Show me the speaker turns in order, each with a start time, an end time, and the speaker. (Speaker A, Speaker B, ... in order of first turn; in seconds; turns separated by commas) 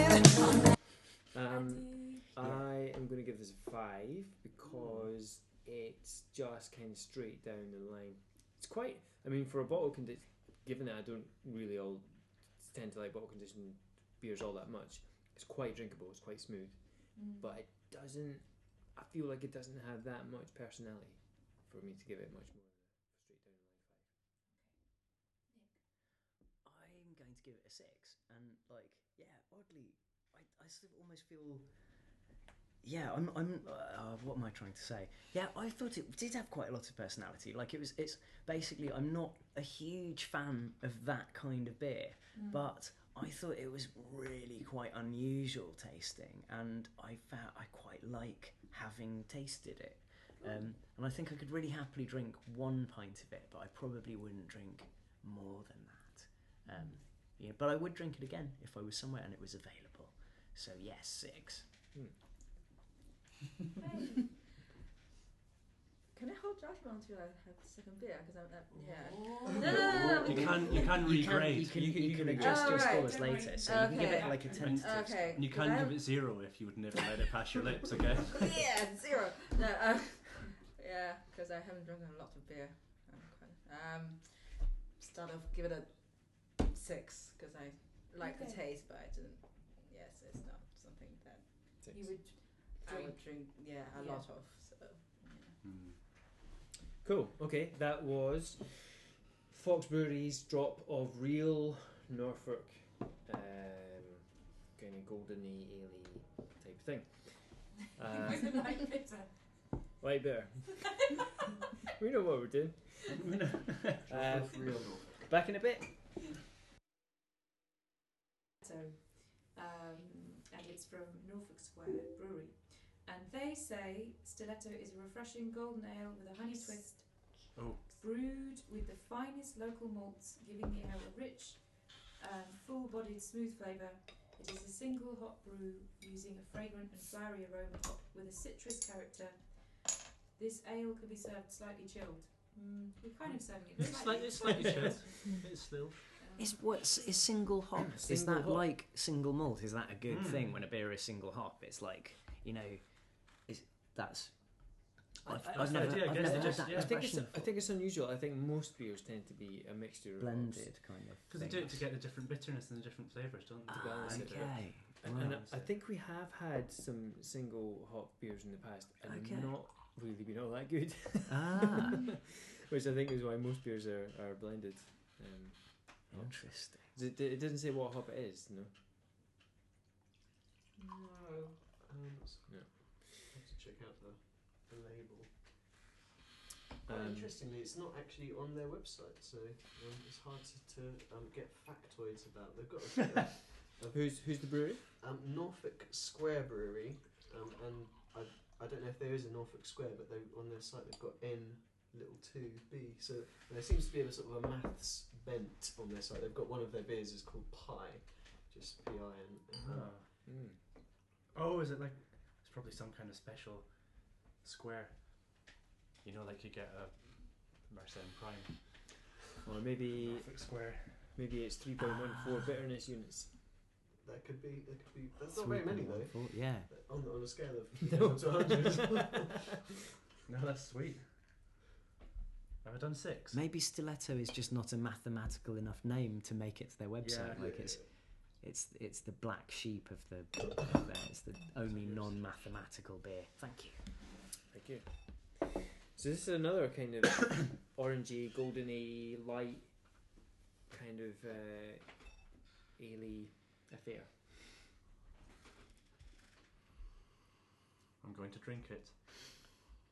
Speaker A: 1.3-24.1, Speaker B: 1.4-2.3, Speaker B: 17.1-17.5, Speaker C: 26.6-32.0, Speaker C: 32.8-61.7, Speaker B: 42.3-42.7, Speaker B: 63.8-64.2, Speaker D: 66.1-71.0, Speaker E: 70.2-71.8, Speaker C: 70.9-75.4, Speaker A: 71.5-72.8, Speaker D: 72.4-76.1, Speaker B: 72.5-74.7, Speaker E: 74.6-78.7, Speaker D: 78.3-91.9, Speaker B: 88.2-88.6, Speaker A: 91.8-92.1, Speaker B: 91.9-94.2, Speaker D: 92.7-95.6, Speaker E: 95.6-96.0, Speaker A: 97.0-108.6, Speaker B: 108.1-109.4, Speaker A: 110.0-111.1, Speaker A: 111.9-113.2, Speaker E: 113.2-114.0, Speaker F: 114.1-115.2, Speaker A: 114.1-115.2, Speaker C: 115.3-115.9, Speaker B: 118.6-145.2, Speaker E: 127.5-127.8, Speaker E: 143.3-146.2, Speaker B: 146.2-146.6, Speaker C: 146.4-157.5, Speaker A: 147.9-148.7, Speaker E: 150.1-150.6, Speaker A: 155.2-160.7, Speaker E: 155.5-157.0, Speaker C: 160.2-161.8, Speaker E: 161.3-165.7, Speaker C: 163.7-165.4, Speaker A: 163.7-178.7, Speaker C: 169.0-169.5, Speaker C: 171.3-172.0, Speaker C: 176.1-176.8, Speaker F: 181.8-185.7, Speaker A: 182.5-183.1, Speaker F: 186.8-209.9, Speaker A: 186.9-187.3, Speaker A: 193.9-194.8, Speaker E: 209.6-210.1, Speaker A: 210.2-210.6, Speaker E: 211.3-215.5, Speaker E: 216.0-219.0, Speaker A: 219.4-223.4, Speaker E: 220.0-221.2, Speaker F: 224.0-229.3, Speaker C: 225.3-226.7, Speaker A: 227.8-229.3, Speaker E: 230.2-231.2, Speaker E: 232.6-233.4, Speaker C: 233.3-243.9, Speaker E: 237.0-237.5, Speaker E: 241.7-242.1, Speaker A: 244.5-250.1, Speaker A: 250.7-252.1, Speaker A: 252.7-254.1, Speaker E: 258.0-259.1